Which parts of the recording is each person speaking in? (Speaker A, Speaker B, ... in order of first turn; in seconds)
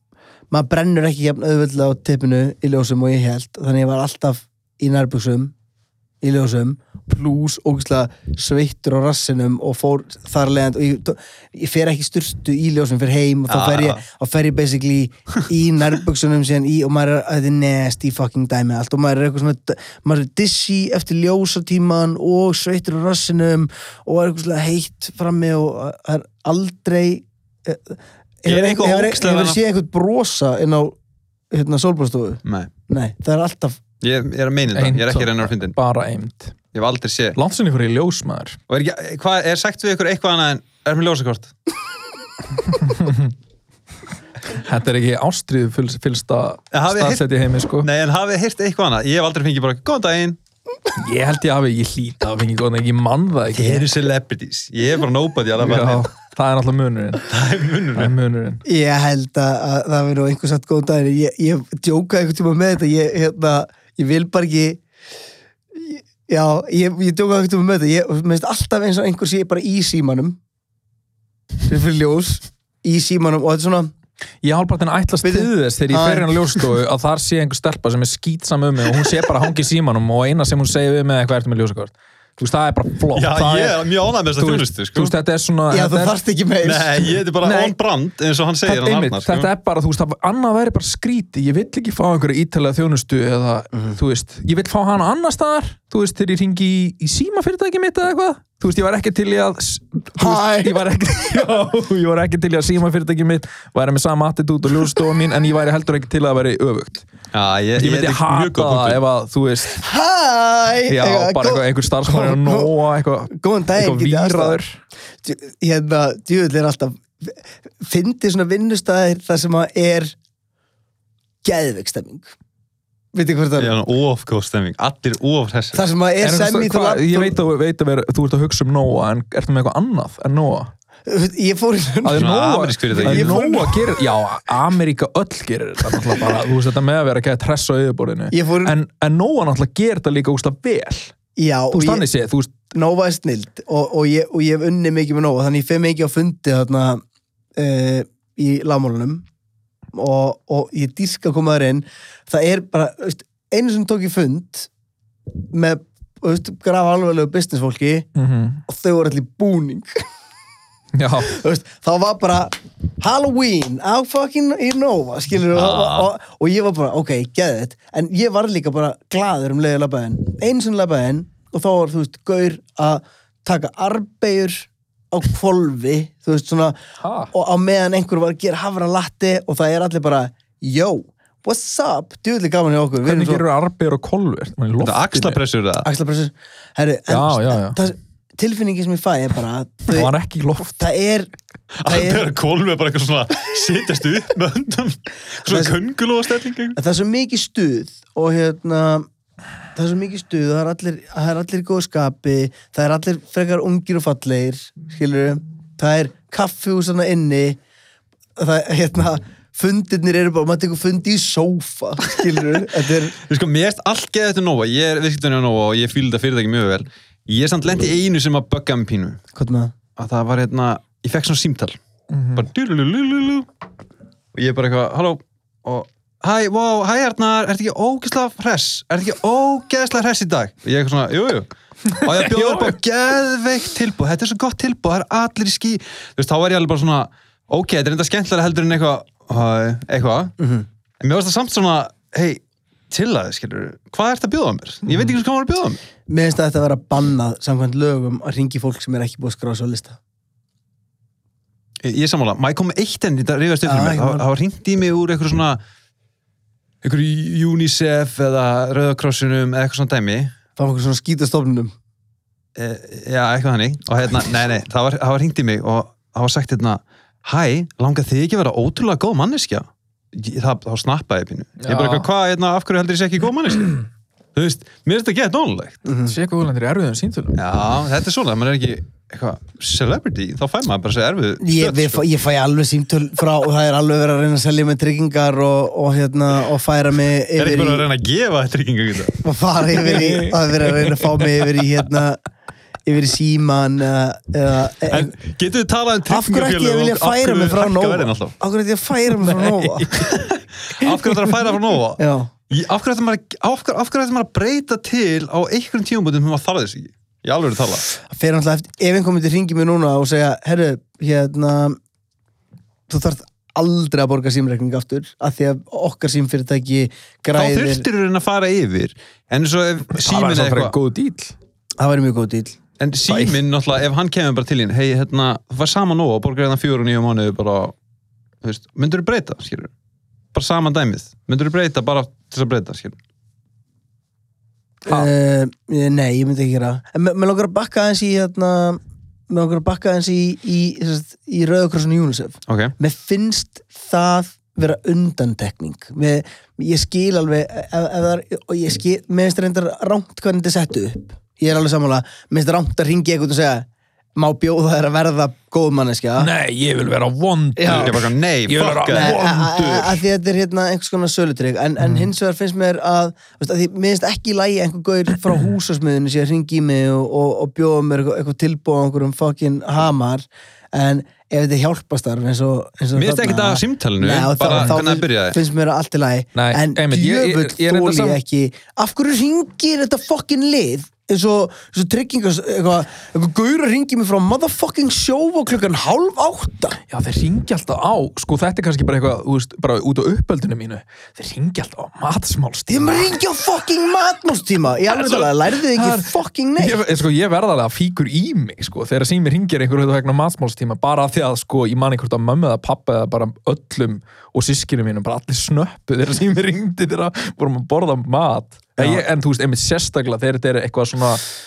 Speaker A: 0.5-5.5, 6.2-31.0, 31.5-33.8, 58.6-64.8, 65.7-70.4, 71.7-73.9, 75.2-76.3, 85.7-87.2, 93.7-94.0, 100.2-100.8, 109.7-112.8, 113.3-114.6, 115.2-120.2, 121.4-122.3, 123.1-123.8, 125.7-127.4, 131.1-132.3, 132.9-133.8, 138.3-138.8, 141.4-142.1, 142.7-147.0, 147.6-149.2, 149.9-154.7, 155.5-158.1, 158.7-159.9, 161.2-176.8, 177.3-183.4, 185.8-190.1, 190.8-191.3, 191.9-192.3, 195.5-195.8, 196.8-199.1, 199.8-207.6, 208.4-213.2, 219.3-219.7, 240.4-240.7, 246.1-250.0, 253.6-254.3, 260.6-261.7, 275.9-276.1, 281.4-287.9, 289.2-292.2, 292.9-295.1, 296.1-300.1, 302.0-302.3, 308.0-311.8, 312.9-317.9, 321.8-322.6, 334.9-356.3, 357.6-358.0, 358.9-386.8, 392.7-396.8
Speaker B: 13.5-14.0, 28.5-29.6, 32.5-32.7, 34.0-35.8, 36.7-37.4, 38.7-41.5, 46.7-47.3, 47.8-50.4, 53.5-56.1, 57.3-58.1, 83.2-85.1, 86.6-89.5, 107.3-109.0, 123.6-125.8, 132.1-133.4, 165.5-166.1, 184.8-185.9, 191.8-196.8, 213.3-219.2, 220.0-221.8, 222.3-223.5, 224.3-240.3, 241.0-245.8, 251.8-255.6, 256.8-260.3, 262.6-275.8, 277.4-282.0, 287.4-289.2, 294.9-298.4, 300.1-307.9, 317.3-320.7, 322.8-327.8, 328.4-329.7, 330.3-333.0, 342.5-342.7, 357.7-359.2, 373.0-375.4, 408.8-409.0
Speaker C: 34.7-36.5, 37.4-38.6, 42.6-43.3, 44.5-47.9, 51.0-53.9, 55.6-57.2, 58.0-58.6, 74.4-83.8, 84.3-86.2, 87.4-87.8, 88.7-107.0, 107.8-109.8, 110.9-114.8, 126.2-130.7, 132.0-141.1, 141.7-142.6, 158.2-158.6, 161.0-161.3, 177.0-177.3, 183.0-185.4, 187.1-187.8, 189.9-190.8, 222.1-222.5, 231.9-232.8, 244.9-245.2, 271.6-272.1, 276.0-277.4, 289.8-291.3, 299.2-300.3, 300.9-301.3, 319.9-321.4, 334.9-335.1, 356.2-360.0, 361.8-362.1, 374.5-374.8, 376.4-378.2, 386.9-393.1, 394.9-411.2